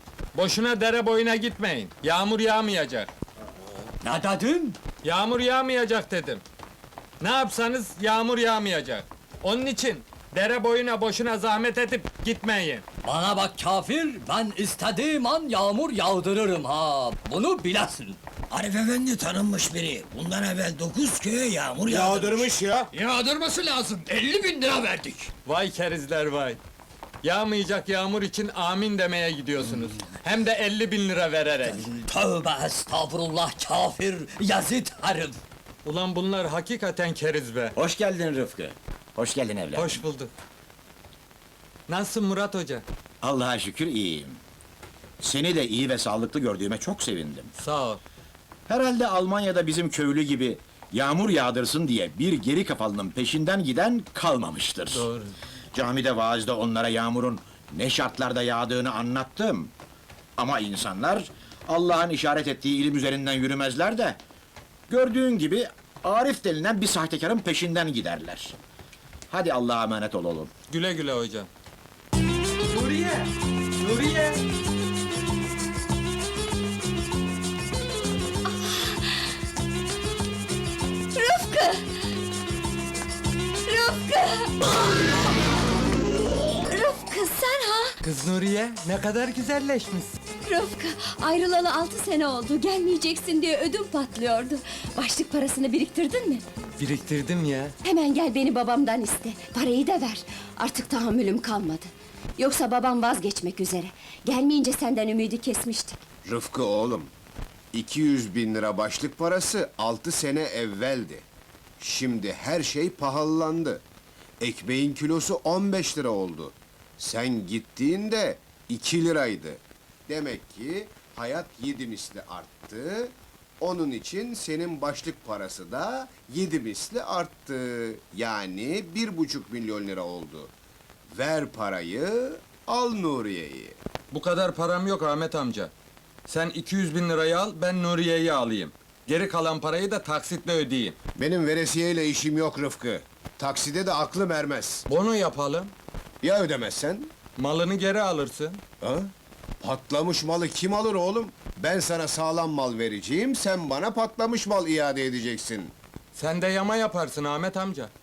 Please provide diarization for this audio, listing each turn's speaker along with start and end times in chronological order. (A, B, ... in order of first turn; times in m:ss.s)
0:00.3-0:03.1 A
0:04.0-0:04.8 B
0:05.0-0:06.4 A
0:07.2-0:12.8 A
0:13.0-0:18.2 B
0:18.5-0:22.6 C
0:21.9-0:22.8 D
0:22.9-0:25.3 B
0:25.4-0:26.6 A
0:27.2-0:31.9 A
0:31.7-0:35.4 B
0:35.8-0:37.7 A
0:37.7-0:40.0 E
0:39.7-0:40.3 A
0:41.9-0:42.8 A
0:43.2-0:44.4 E
0:45.2-0:47.5 E
0:47.6-0:48.0 A
0:48.7-0:55.1 E
0:54.9-0:55.3 A
0:55.7-0:59.7 E
1:00.4-1:04.2 E
1:04.9-1:08.6 E
1:09.3-1:10.5 E
1:10.7-1:11.5 A
1:12.7-1:14.4 A
1:18.6-1:18.9 F
1:21.1-1:21.8 F
1:23.7-1:25.1 F
1:26.7-1:28.0 F
1:28.0-1:30.1 A
1:30.4-1:36.4 F
1:36.8-1:37.7 A
1:37.8-1:46.0 F
1:46.2-1:47.1 D
1:47.7-1:51.2 D
1:51.8-1:53.8 D
1:54.4-2:10.5 D
2:11.1-2:13.7 D
2:14.1-2:15.7 A
2:16.3-2:21.0 A
2:21.2-2:24.8 D
2:24.9-2:25.7 A
2:26.2-2:27.1 D
2:27.4-2:28.6 A
2:28.8-2:35.7 D
2:36.1-2:37.9 A